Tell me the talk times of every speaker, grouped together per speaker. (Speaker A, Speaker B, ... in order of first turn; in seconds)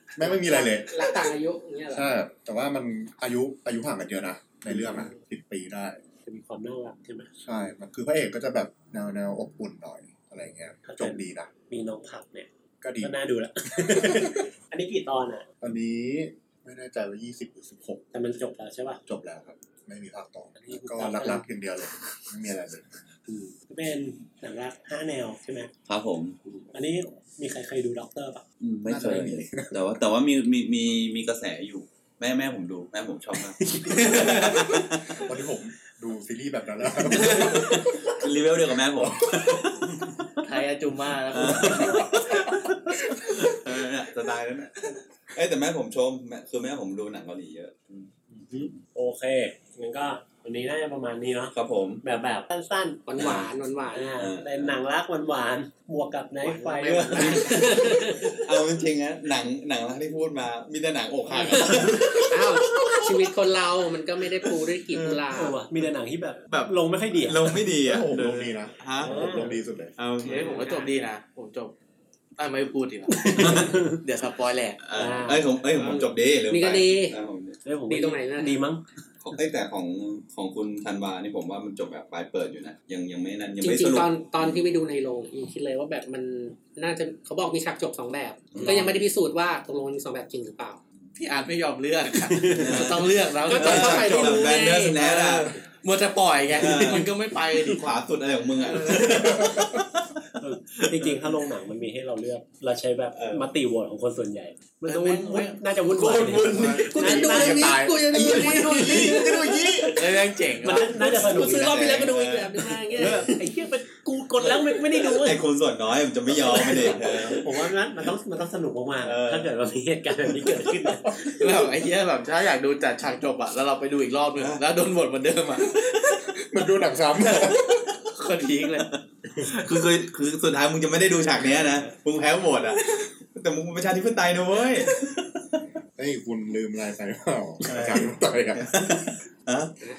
Speaker A: 0.2-1.3, 1.9-6.0, 7.4-11.5, 12.8-13.2, 13.7-14.5, 15.6-18.0, 19.1-23.0, 28.9-29.8, 35.2-37.9, 67.8-70.0, 107.0-109.9, 126.4-127.9, 136.0-139.1
Speaker B: 0.2-2.1, 53.1-54.2, 57.3-58.3, 61.4-65.6, 70.2-70.9, 76.5-77.2, 77.9-78.6, 83.6-90.8, 93.5-95.0, 106.9-109.9, 111.1-113.3
Speaker C: 6.3-7.3, 10.8-12.5, 13.0-15.5, 18.1-19.0, 20.6-21.5, 23.3-25.7, 26.5-28.5, 33.6-34.5, 41.4-42.0, 48.3-58.4, 65.3-67.6, 69.0-69.6, 73.1-74.0, 75.0-75.5, 77.7-78.8, 88.6-88.9, 92.3-92.9, 96.6-97.0, 100.4-107.8, 110.6-111.8, 113.0-115.4, 116.7-121.5
Speaker D: 25.9-26.4, 28.6-35.2, 37.1-39.9, 41.3-48.7, 51.5-52.0, 53.2-53.5, 54.2-54.8, 57.2-63.2, 64.9-65.2, 66.5-69.2, 70.0-70.6, 74.8-77.6, 79.2-84.8, 88.5-89.0, 92.5-95.6, 96.5-101.4, 103.2-103.5, 111.8-113.3, 114.4-117.5, 119.0-119.5, 128.8-135.6, 137.7-139.7
Speaker E: 33.9-34.6, 40.4-42.4, 56.4-57.8, 70.2-71.7, 72.4-74.8, 91.2-97.9, 98.6-99.5, 104.9-113.4, 116.6-116.9, 121.3-126.5, 127.3-128.9